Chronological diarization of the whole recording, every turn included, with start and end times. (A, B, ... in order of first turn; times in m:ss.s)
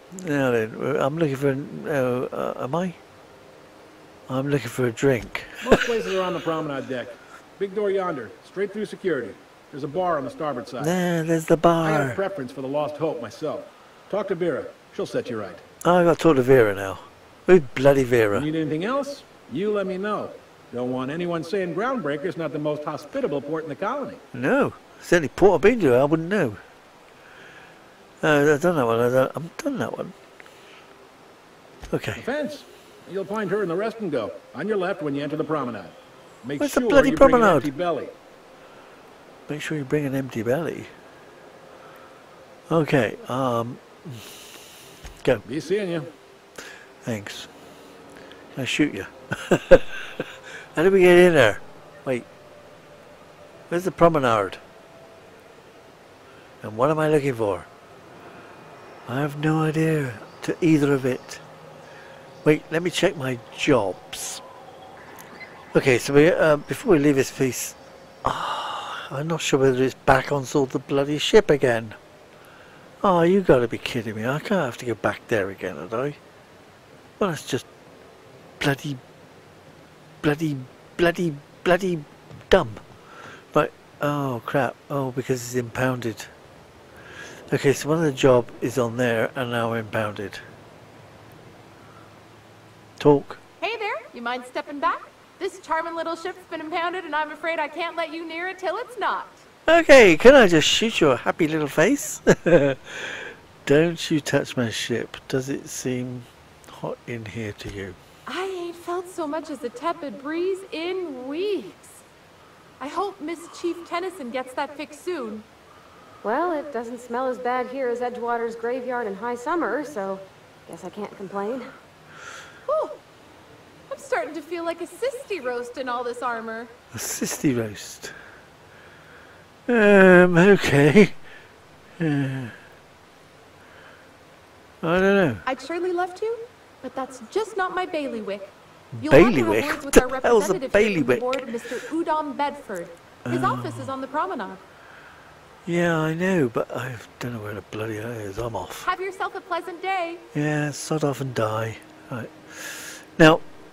0:00.1-0:03.0 A
0:04.3-0:06.0 A
0:05.6-0:11.0 B
0:10.8-0:12.2 A
0:11.8-0:15.6 B
0:15.8-0:18.5 A
0:18.3-0:24.2 B
0:24.3-0:26.6 A
0:28.2-0:30.2 A
0:31.9-0:32.3 A
0:32.2-0:38.1 B
0:36.6-0:37.7 A
0:39.5-0:40.9 A
0:42.7-0:44.6 A
0:45.4-0:46.1 B
0:47.0-0:47.5 A
0:48.5-0:52.3 A
0:53.7-0:54.6 A
0:56.6-0:57.7 A
0:59.0-1:01.4 A
1:02.4-1:04.4 A
1:05.7-1:12.0 A
1:13.0-1:16.2 A
1:17.2-1:17.7 A
1:18.6-1:19.0 A
1:20.2-1:22.8 A
1:23.5-1:26.3 A
1:27.5-1:30.4 A
1:33.0-1:33.4 A
1:33.6-1:39.4 C
1:39.7-1:48.0 A
1:48.3-1:52.0 C
1:52.8-1:55.4 C
1:56.2-2:01.7 D
2:02.7-2:03.0 C
2:03.9-2:06.7 C
2:06.9-2:08.1 A
2:09.7-2:11.2 A
2:12.0-2:12.6 A
2:14.8-2:15.4 A
2:15.4-2:24.6 C
2:18.9-2:21.5 A
2:23.2-2:23.9 A
2:25.6-2:28.9 A
2:28.8-2:30.2 C
2:30.3-2:33.4 A